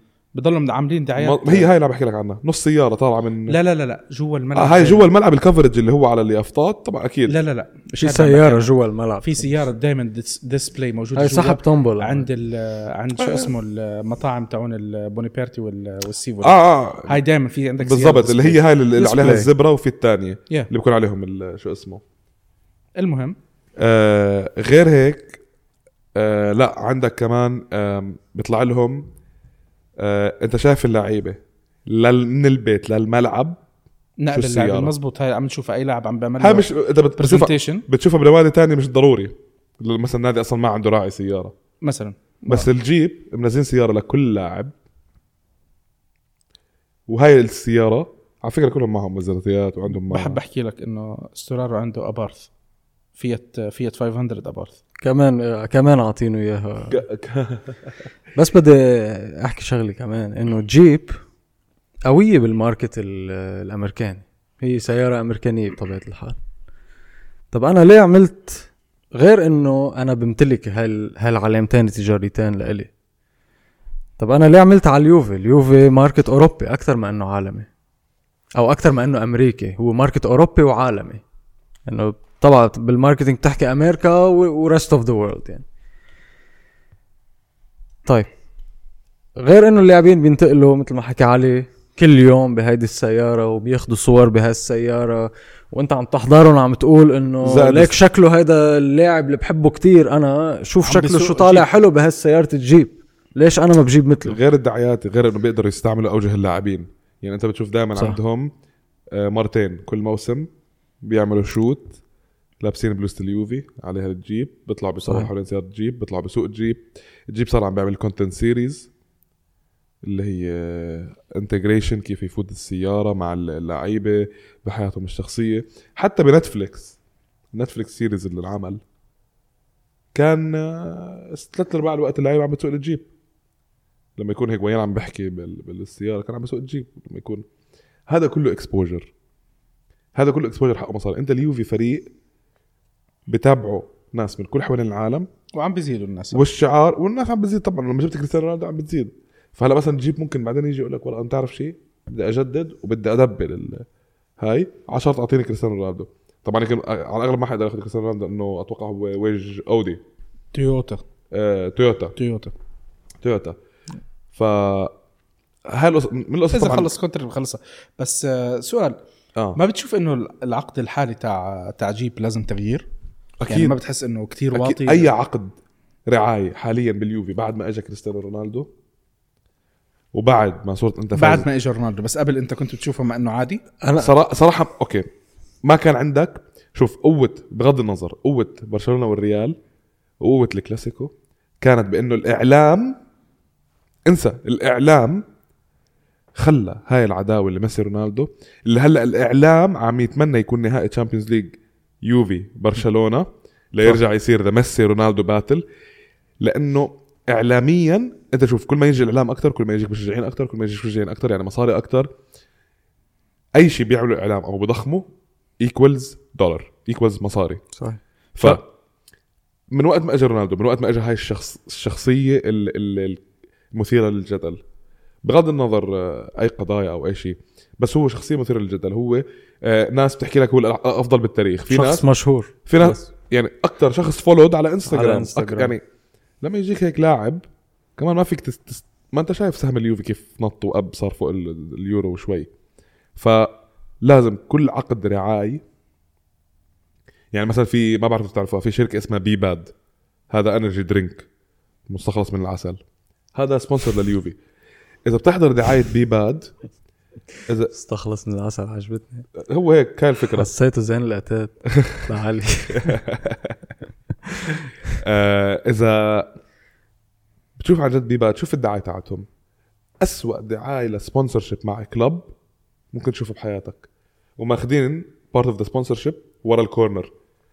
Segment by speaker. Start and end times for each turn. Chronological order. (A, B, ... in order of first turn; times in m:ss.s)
0:00.3-0:01.7 A
0:01.2-0:03.6 B
0:03.5-0:05.1 A
0:04.5-0:07.4 B
0:07.3-0:18.6 A
0:08.0-0:09.6 C
0:11.1-0:12.3 C
0:16.4-0:17.2 B
0:17.8-0:22.0 B
0:19.0-0:19.5 C
0:23.0-0:23.4 A
0:23.8-0:25.4 B
0:26.2-0:29.1 B
0:30.0-0:33.6 B
0:34.2-0:37.8 A
0:34.3-0:34.9 B
0:36.4-0:41.6 B
0:41.8-0:42.7 A
0:42.5-0:44.7 B
0:47.1-0:50.4 B
0:50.1-0:52.5 A
0:53.2-0:54.8 A
0:55.0-0:57.0 C
0:56.9-0:57.9 B
0:58.4-1:01.2 C
1:02.0-1:06.4 C
1:07.5-1:12.9 C
1:14.2-1:17.7 C
1:18.6-1:21.2 C
1:21.9-1:25.6 C
1:29.4-1:44.4 C
1:37.4-1:37.9 B
1:40.8-1:41.8 A
1:44.2-1:48.5 B
1:49.1-1:50.5 B
1:51.0-1:52.0 B
1:52.6-1:58.9 B
2:00.0-2:07.0 B
2:07.5-2:08.8 B
2:10.1-2:13.1 B
2:14.2-2:17.4 B
2:18.1-2:19.1 B
2:20.1-2:22.1 B
2:23.3-2:25.3 B
2:25.5-2:26.4 A
2:26.3-2:33.8 B
2:34.4-2:40.0 B
2:40.5-2:41.0 A
2:41.3-2:42.1 B
2:42.2-2:42.5 A
2:43.2-2:43.6 B
2:44.3-2:44.9 B
2:45.7-2:46.9 B
2:46.5-2:49.0 A
2:49.6-2:52.8 A
2:53.4-2:53.8 B
2:53.5-2:55.1 A
2:54.5-2:55.5 B
2:56.1-2:58.7 B
3:00.1-3:01.5 B
3:01.1-3:03.6 A
3:03.8-3:04.1 C
3:04.0-3:05.1 B
3:05.6-3:09.6 B
3:10.2-3:13.0 B
3:14.1-3:15.2 B
3:16.4-3:25.6 B
3:26.4-3:32.1 B
3:33.6-3:35.1 B
3:35.6-3:37.6 B
3:37.8-3:38.6 C
3:38.3-3:38.6 B
3:39.7-3:44.6 B
3:45.2-3:52.0 B
3:51.7-3:53.0 C
3:52.6-3:55.8 B
3:54.8-3:55.7 C
3:56.4-3:57.4 B
3:58.0-4:02.5 B
4:03.2-4:05.6 B
4:07.3-4:09.7 B
4:10.3-4:11.3 B
4:11.9-4:12.8 B
4:13.3-4:14.4 B
4:15.0-4:16.5 B
4:17.7-4:19.2 C
4:19.4-4:20.5 B
4:20.3-4:23.0 C
4:21.8-4:22.1 B
4:22.7-4:23.6 B
4:25.0-4:26.3 B
4:27.6-4:29.3 B
4:30.0-4:32.3 B
4:32.9-4:33.9 B
4:34.4-4:37.1 B